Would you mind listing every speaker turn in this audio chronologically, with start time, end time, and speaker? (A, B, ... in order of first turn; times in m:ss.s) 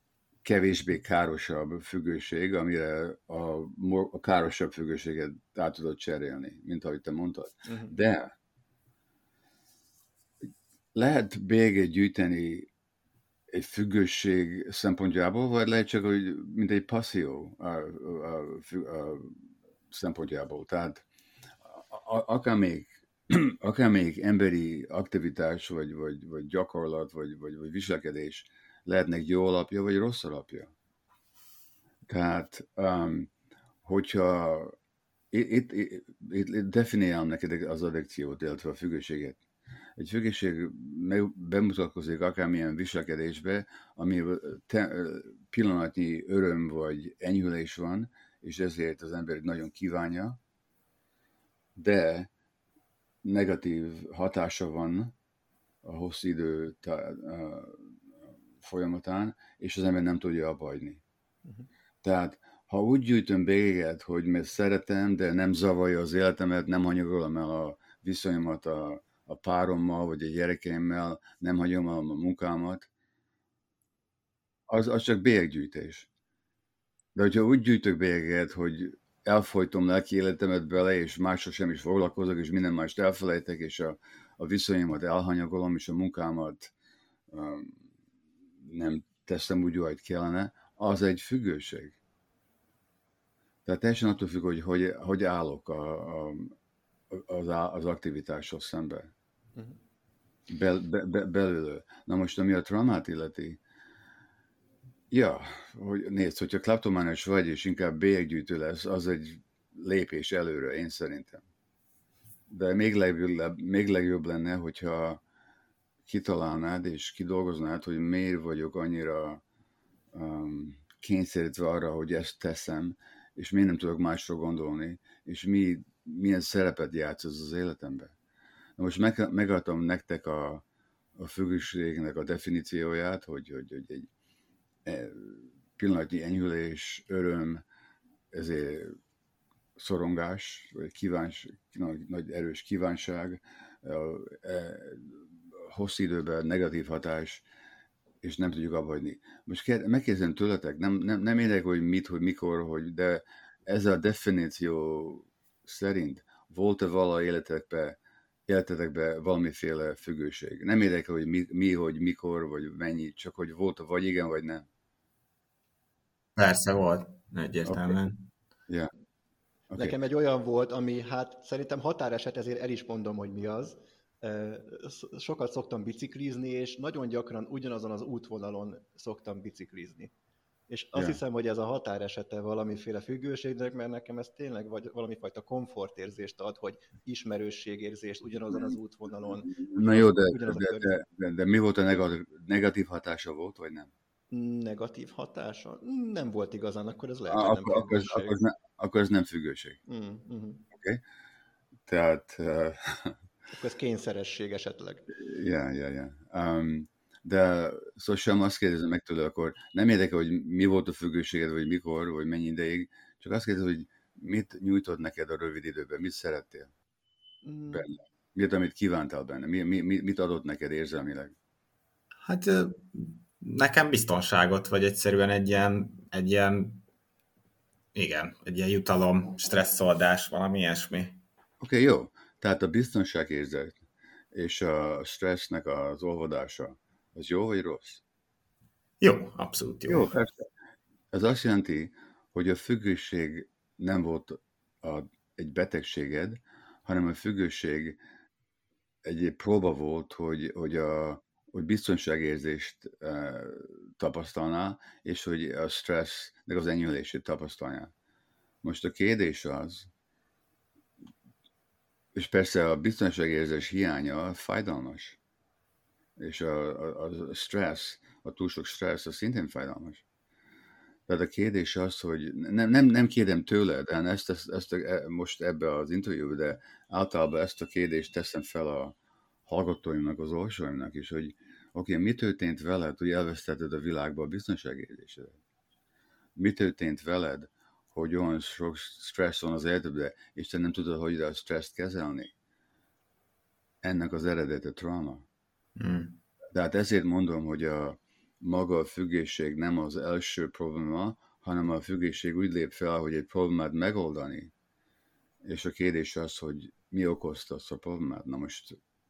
0:00.4-0:08.3 A
0:07.6-0:08.0 B
0:10.9-0:12.7 A
0:13.5-0:19.4 A
0:19.9-0:21.0 A
0:21.6-0:30.7 A
0:32.1-0:33.3 A
0:33.8-0:34.7 A
0:35.3-0:39.4 A
0:40.0-0:50.4 A
0:51.8-0:52.3 A
0:53.2-0:55.1 A
0:55.8-0:58.0 A
0:58.6-1:01.0 A
1:02.0-1:12.9 A
1:14.7-1:16.1 A
1:17.1-1:26.7 A
1:27.3-1:27.8 A
1:28.6-1:32.0 A
1:33.6-1:36.5 A
1:37.1-1:39.1 A
1:40.5-1:43.6 A
1:45.1-1:51.4 A
1:52.5-1:55.2 A
1:56.1-1:59.4 A
2:00.1-2:08.1 A
2:08.8-2:10.6 A
2:11.2-2:14.1 A
2:14.8-2:17.6 A
2:18.3-2:18.9 A
2:19.8-2:27.4 A
2:28.2-2:44.7 A
2:46.4-2:48.2 C
2:47.6-2:48.0 A
2:49.7-3:00.1 B
3:00.7-3:11.0 B
3:09.4-3:13.9 A
3:14.3-3:18.4 B
3:17.3-3:19.8 A
3:19.9-3:20.6 B
3:20.7-3:21.0 A
3:21.9-3:23.2 A
3:23.5-3:25.1 B
3:25.1-3:36.7 A
3:37.4-3:37.9 B
3:37.7-3:41.3 A
3:42.2-3:46.8 C
3:47.9-3:51.2 C
3:51.6-3:53.8 A
3:54.3-3:58.0 A
3:59.0-4:00.1 C
3:59.8-4:00.5 A
4:01.1-4:08.0 A
4:09.0-4:17.9 A
4:18.6-4:19.9 A
4:22.1-4:25.2 A
4:26.2-4:30.0 A
4:31.1-4:38.9 A
4:39.4-4:45.4 A
4:46.4-4:52.3 A
4:53.8-4:55.2 A
4:55.8-4:56.2 C
4:56.5-5:04.5 A
5:05.4-5:08.8 A